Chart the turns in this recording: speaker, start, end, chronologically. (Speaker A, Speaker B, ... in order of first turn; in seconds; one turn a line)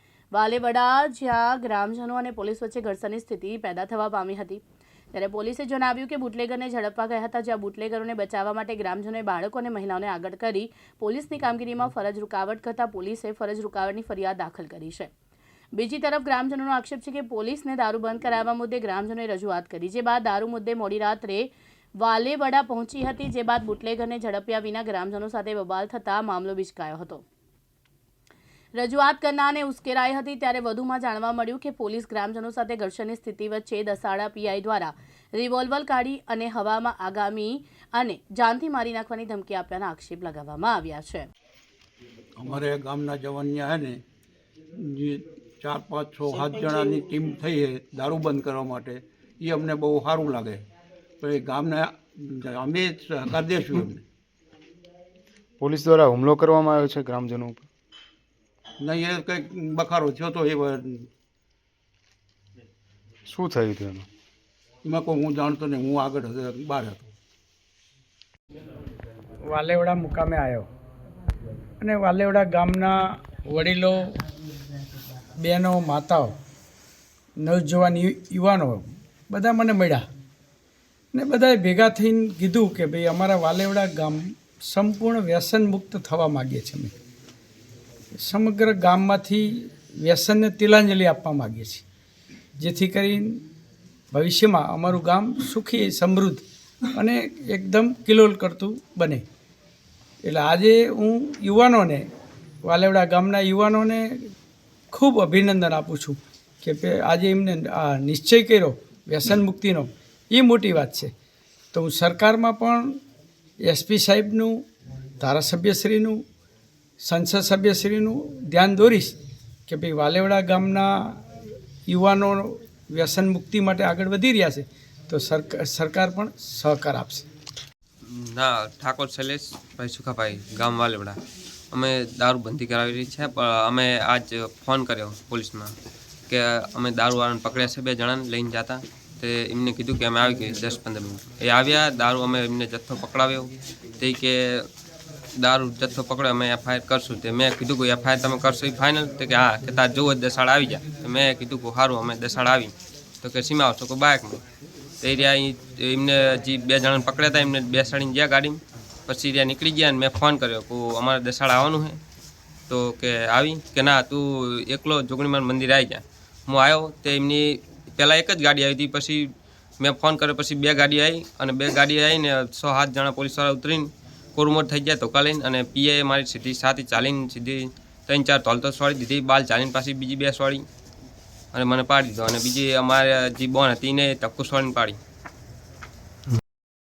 Speaker A: 0.3-4.6
Speaker A: 5.1-15.1
Speaker A: 15.8-27.2
Speaker A: 28.8-41.3
Speaker B: 42.4-44.0
Speaker B: 44.8-50.6
Speaker B: 51.2-54.0
Speaker C: 55.6-57.7
Speaker B: 58.8-61.1
Speaker C: 63.3-64.1
Speaker B: 64.8-67.1
Speaker D: 69.5-70.7
Speaker D: 71.8-74.2
Speaker D: 75.4-76.3
Speaker D: 77.4-80.0
Speaker D: 81.1-86.9
Speaker D: 88.2-91.8
Speaker D: 92.6-93.4
Speaker D: 94.1-96.4
Speaker D: 96.9-99.2
Speaker D: 100.2-102.0
Speaker D: 102.6-104.1
Speaker D: 104.9-111.1
Speaker D: 111.7-113.0
Speaker D: 113.7-114.5
Speaker D: 115.2-116.2
Speaker D: 117.0-119.2
Speaker D: 119.7-121.2
Speaker D: 121.9-127.3
Speaker E: 128.1-131.2
Speaker E: 131.7-135.7
Speaker E: 136.3-144.7
Speaker E: 145.4-154.4
Speaker E: 155.0-162.0
Speaker E: 162.7-169.3
Speaker E: 169.8-180.7
Speaker E: 181.5-185.0